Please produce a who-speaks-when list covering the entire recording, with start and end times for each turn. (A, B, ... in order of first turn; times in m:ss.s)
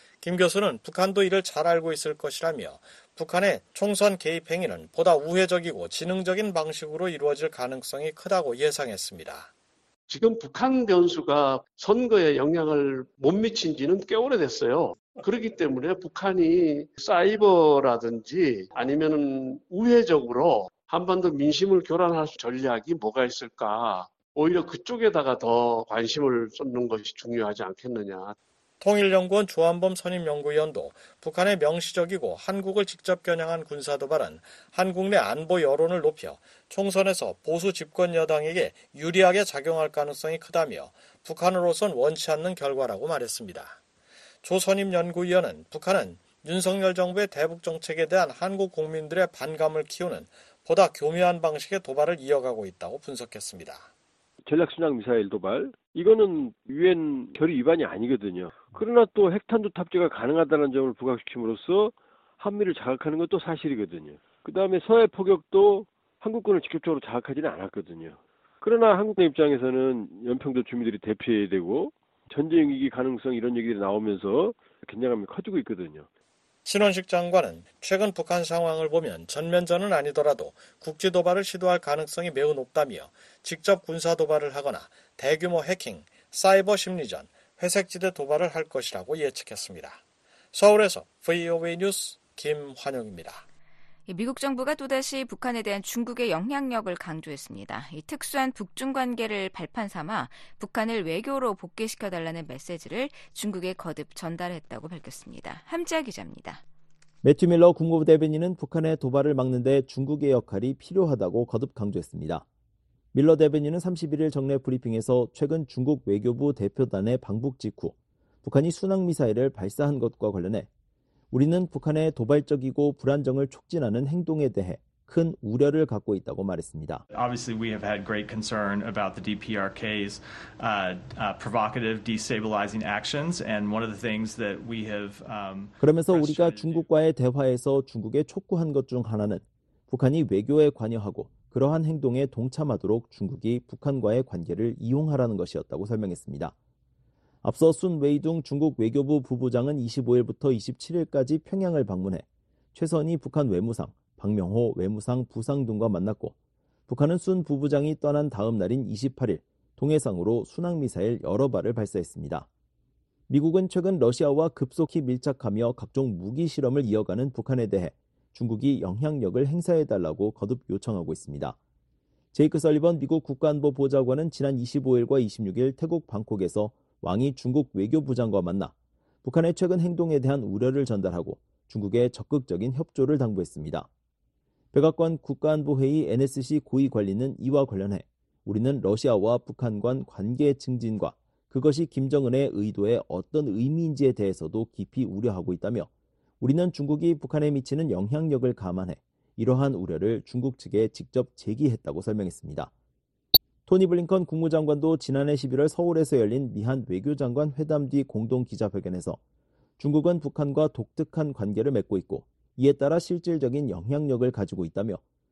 0:00.2-0:09.5 A
0:10.1-0:28.4 B
0:28.8-0:43.8 A
0:44.4-0:53.9 A
0:54.4-1:16.1 C
1:16.6-1:30.0 A
1:30.5-1:33.4 A
1:34.1-1:46.6 D
1:47.2-1:52.4 E
1:53.1-2:00.7 E
2:01.3-2:07.0 E
2:07.1-2:16.8 F
2:15.8-2:26.5 E
2:27.4-2:36.3 E
2:36.9-2:42.5 E
2:43.3-2:51.6 E
2:52.3-3:03.9 E
3:04.7-3:15.9 E
3:16.4-3:22.7 E
3:23.6-3:29.2 E
3:29.8-3:35.0 E